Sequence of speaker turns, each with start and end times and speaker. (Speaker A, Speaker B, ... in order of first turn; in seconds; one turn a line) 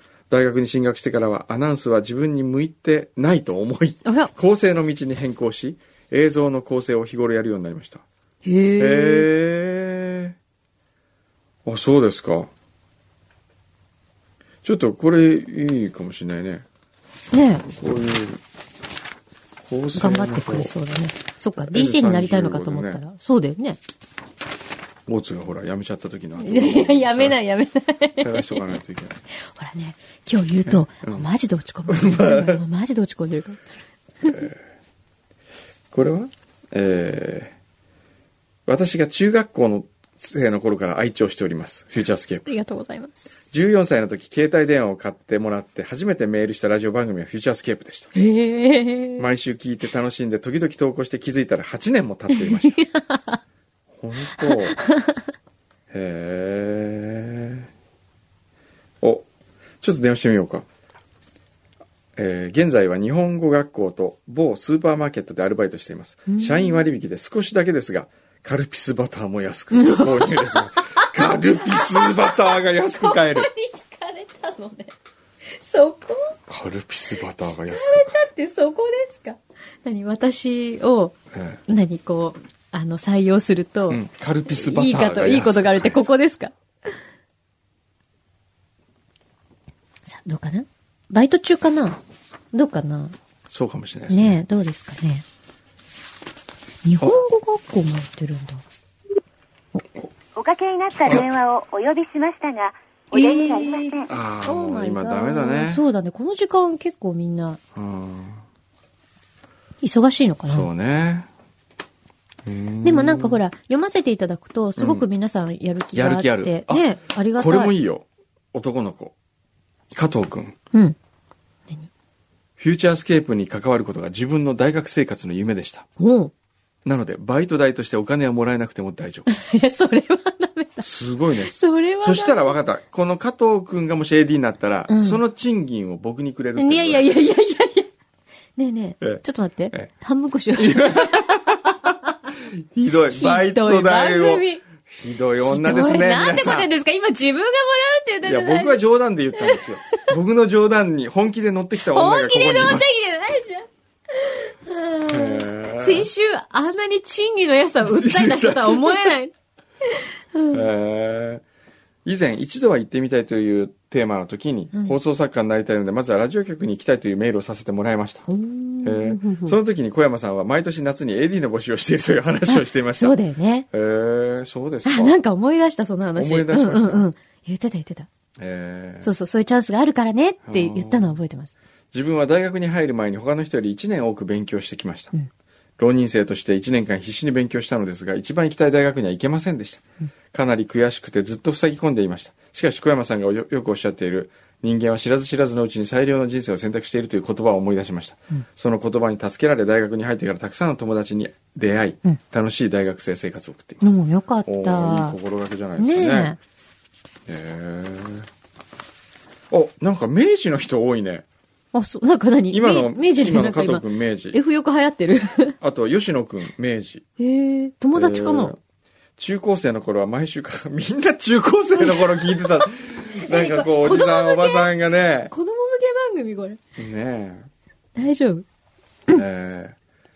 Speaker A: 0.3-8.0
Speaker B: 4.0-4.3
Speaker B: 8.4-9.3
Speaker A: 8.8-10.4
Speaker A: 11.7-12.5
Speaker A: 14.6-16.6
Speaker B: 17.3-17.6
Speaker A: 17.6-18.4
Speaker A: 19.6-20.7
Speaker B: 19.9-23.8
Speaker A: 21.6-23.0
Speaker A: 25.1-27.4
Speaker B: 26.4-28.7
Speaker A: 28.2-29.2
Speaker B: 29.3-33.6
Speaker A: 30.6-31.3
Speaker A: 31.9-32.6
Speaker A: 34.2-34.6
Speaker A: 35.9-37.5
Speaker A: 38.7-42.5
Speaker B: 42.5-43.3
Speaker A: 43.5-48.1
Speaker B: 48.1-49.2
Speaker A: 49.2-52.8
Speaker B: 52.3-53.4
Speaker A: 53.9-54.8
Speaker B: 54.4-55.2
Speaker A: 55.9-57.7
Speaker A: 59.0-59.3
Speaker A: 59.8-60.7
Speaker A: 62.2-73.5
Speaker B: 66.3-66.8
Speaker B: 69.7-74.9
Speaker B: 75.5-76.4
Speaker A: 76.5-78.2
Speaker B: 77.5-86.5
Speaker A: 81.3-81.6
Speaker A: 83.9-86.0
Speaker B: 90.1-92.0
Speaker B: 92.5-93.2
Speaker A: 93.5-94.4
Speaker B: 94.1-95.2
Speaker B: 96.8-98.6
Speaker C: 100.4-104.1
Speaker B: 103.1-107.6
Speaker A: 104.1-105.8
Speaker A: 107.8-108.4
Speaker B: 109.8-110.7
Speaker A: 110.5-111.3
Speaker A: 112.5-113.4
Speaker B: 112.8-117.7
Speaker A: 114.8-115.1
Speaker A: 115.9-119.2
Speaker A: 119.9-120.6
Speaker A: 122.6-125.9
Speaker B: 126.0-126.3
Speaker A: 126.8-129.3
Speaker B: 129.3-132.6
Speaker A: 130.8-137.2
Speaker B: 134.9-135.2
Speaker B: 136.6-137.9
Speaker B: 138.6-142.1
Speaker A: 139.0-139.9
Speaker A: 140.6-146.7
Speaker B: 143.1-144.6
Speaker B: 145.4-148.8
Speaker A: 148.2-153.0
Speaker B: 149.3-150.1
Speaker B: 151.8-159.3
Speaker A: 155.1-156.1
Speaker A: 157.8-159.2
Speaker B: 159.8-160.6
Speaker A: 160.5-161.4
Speaker A: 162.1-168.3
Speaker B: 168.3-169.6
Speaker A: 168.8-173.2
Speaker B: 172.5-173.7
Speaker A: 173.7-175.2
Speaker B: 174.8-178.1
Speaker A: 176.2-177.1
Speaker A: 178.4-179.1
Speaker B: 179.0-181.5
Speaker A: 180.4-181.2
Speaker A: 181.9-185.1
Speaker A: 185.8-203.9
Speaker B: 203.8-205.2
Speaker A: 204.5-206.3
Speaker B: 205.8-206.4
Speaker A: 207.3-208.3
Speaker A: 209.5-211.2
Speaker B: 211.7-215.6
Speaker A: 212.5-214.4
Speaker A: 215.6-217.1
Speaker B: 217.2-218.5
Speaker A: 217.9-218.6
Speaker A: 219.2-225.3
Speaker B: 221.9-222.7
Speaker B: 223.2-224.7
Speaker B: 225.3-226.6
Speaker A: 226.8-227.5
Speaker B: 228.0-228.5
Speaker A: 229.1-229.8